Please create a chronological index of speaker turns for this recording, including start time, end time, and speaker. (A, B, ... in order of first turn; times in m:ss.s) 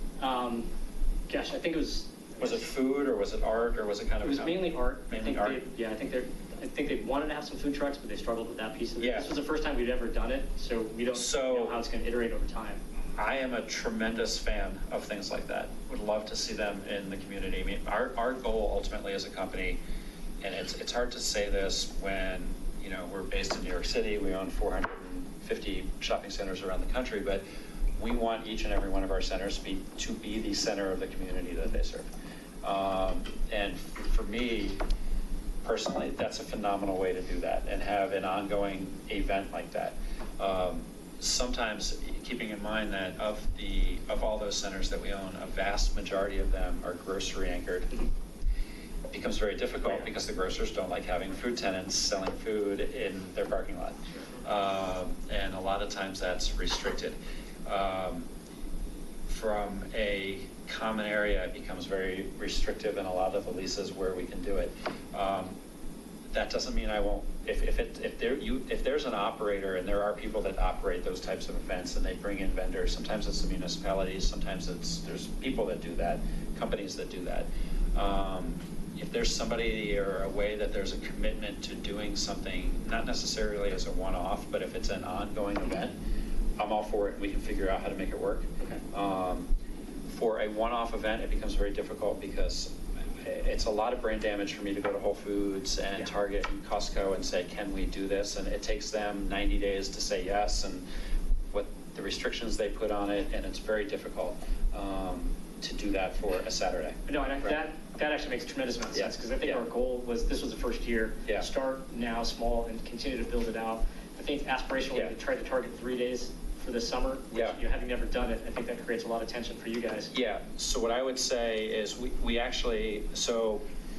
0:00.2-0:00.7 A
0:01.3-0:02.7 A
0:02.4-0:05.6 B
0:04.2-0:12.8 A
0:09.0-0:09.3 B
0:11.1-0:11.8 B
0:13.2-0:19.8 B
0:20.4-0:27.4 B
0:28.0-0:32.1 B
0:32.6-0:34.8 B
0:35.6-0:47.9 B
0:49.1-0:58.3 B
0:59.3-1:05.6 B
1:06.3-1:26.0 B
1:26.6-1:29.5 B
1:30.1-1:40.8 B
1:41.5-1:47.5 B
1:47.1-2:00.1 A
1:49.0-1:49.6 B
1:57.3-1:57.6 B
2:00.1-2:03.6 B